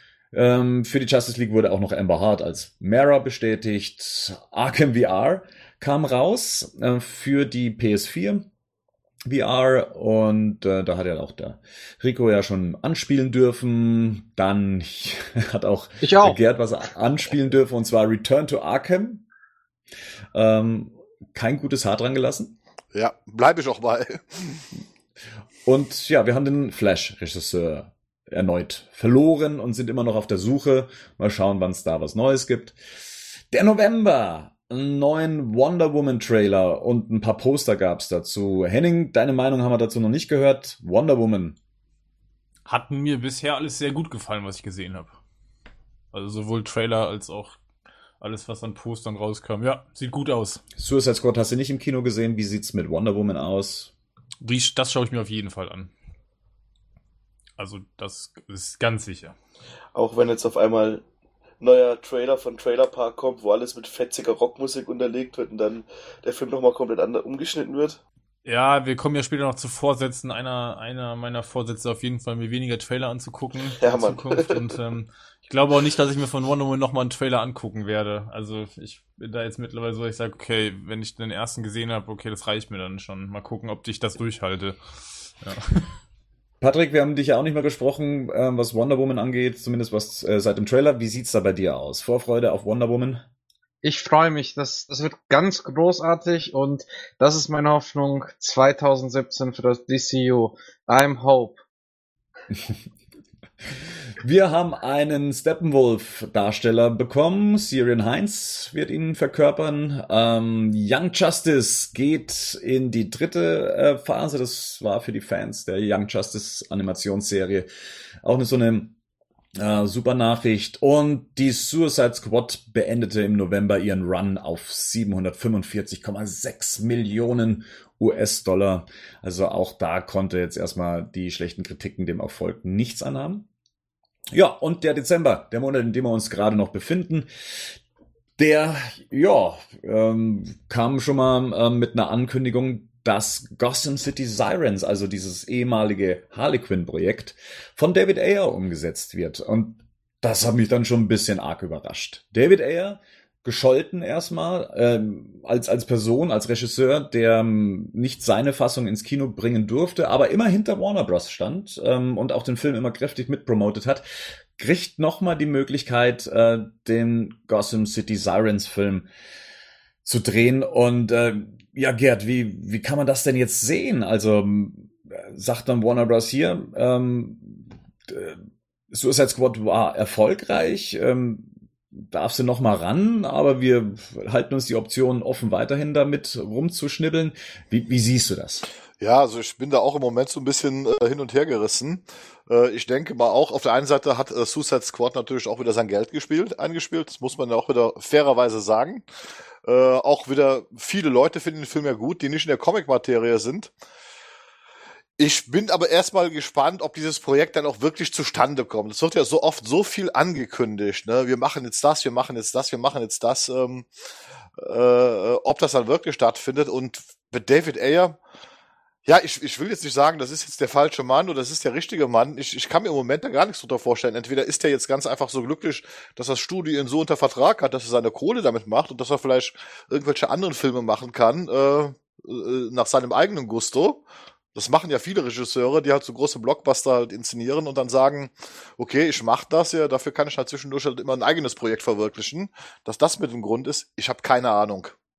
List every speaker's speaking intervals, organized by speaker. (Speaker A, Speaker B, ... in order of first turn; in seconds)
Speaker A: 0.3-8.5, 9.2-19.2, 20.3-22.6, 25.6-32.8, 33.5-41.6, 50.8-53.9, 86.6-93.2, 104.2-117.7, 118.2-118.9, 119.6-133.5, 134.3-137.7, 138.4-164.0, 164.6-169.1, 170.0-178.4, 178.9-188.6
Speaker B: 16.0-16.4, 93.8-101.6
Speaker C: 22.9-24.6, 189.0-199.0, 199.6-203.7, 205.2-213.9, 214.6-218.2, 219.0-234.0, 234.5-244.9
Speaker D: 42.6-45.2, 46.1-47.6, 48.2-50.6, 54.4-55.9, 57.6-59.4, 68.4-84.8, 85.4-85.9
Speaker E: 59.9-61.0, 61.6-68.0, 73.8-74.6